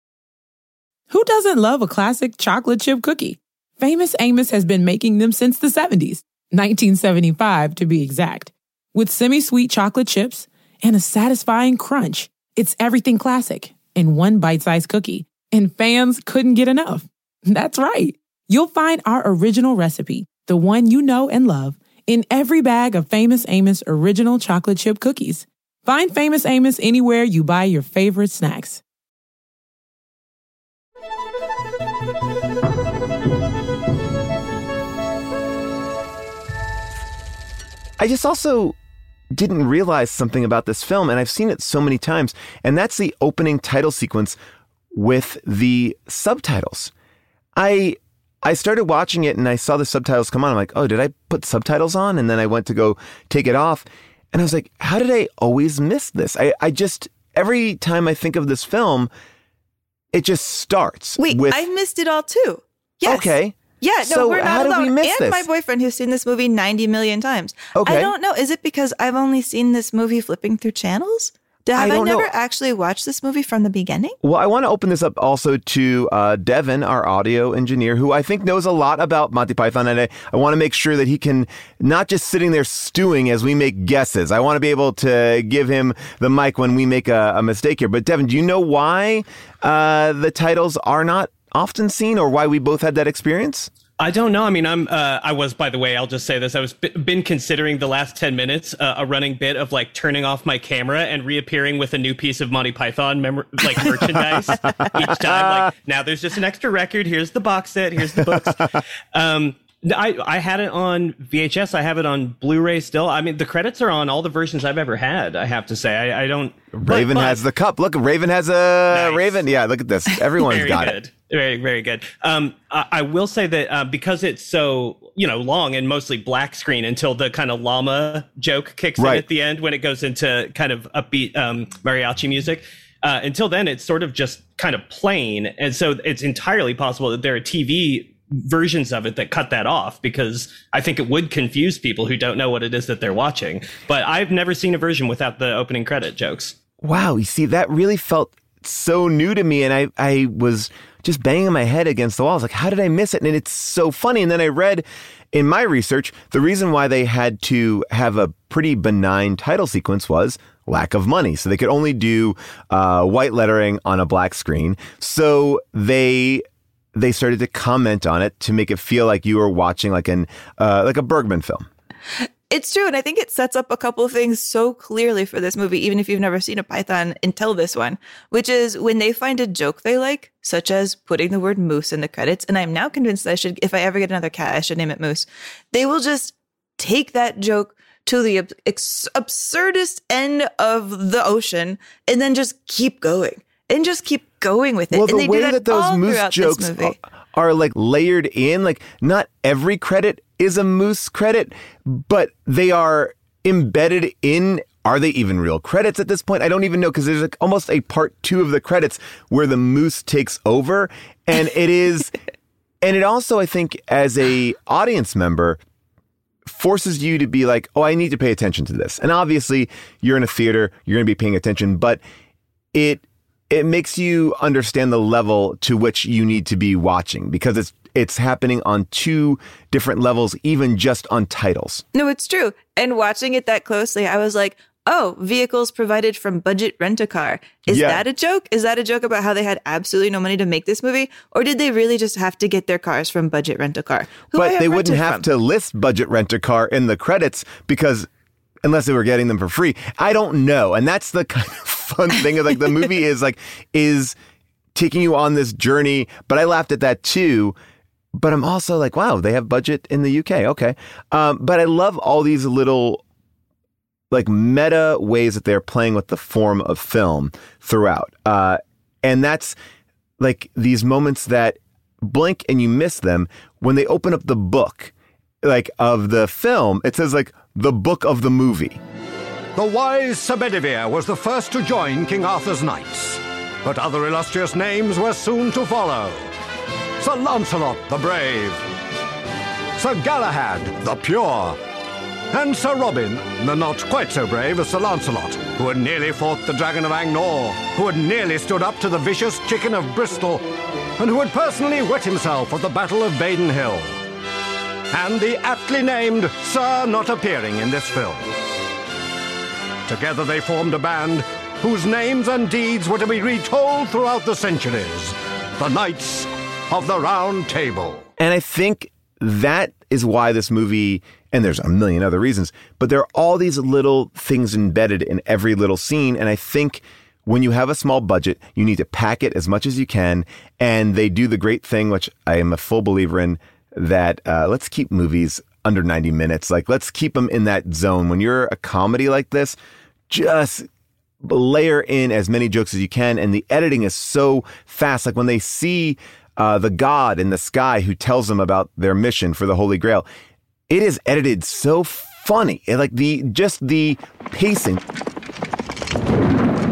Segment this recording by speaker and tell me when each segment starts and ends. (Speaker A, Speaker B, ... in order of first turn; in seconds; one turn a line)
Speaker A: 1.1-28.8
Speaker B: 38.0-38.7
Speaker B: 39.3-44.4
Speaker B: 44.9-46.9
Speaker B: 47.5-59.1
Speaker B: 60.1-61.6
Speaker C: 61.2-74.2
Speaker B: 63.0-65.5
Speaker B: 67.7-68.1
Speaker B: 71.7-72.3
Speaker B: 74.2-93.7
Speaker D: 94.0-117.4
Speaker B: 104.5-105.7
Speaker B: 108.1-108.6
Speaker B: 116.7-121.0
Speaker D: 118.9-119.4
Speaker D: 120.4-146.5
Speaker B: 129.0-129.2
Speaker B: 146.8-166.4
Speaker B: 166.9-171.7
Speaker C: 172.5-197.0
Speaker B: 194.9-212.1
Speaker B: 212.8-215.6
Speaker B: 216.4-222.0
Speaker B: 222.7-231.8
Speaker C: 231.9-245.2
Speaker B: 237.7-238.0
Speaker B: 244.3-248.1
Speaker B: 248.6-254.1
Speaker B: 254.7-257.5
Speaker B: 258.1-263.0
Speaker B: 264.1-269.5
Speaker B: 270.2-278.8
Speaker E: 279.6-286.3
Speaker E: 287.0-288.6
Speaker E: 289.8-291.6
Speaker E: 292.3-300.4
Speaker E: 301.0-304.0
Speaker E: 304.9-308.3
Speaker E: 309.9-318.1
Speaker B: 318.2-339.6
Speaker B: 340.1-340.7
Speaker B: 341.2-350.1
Speaker B: 350.7-354.8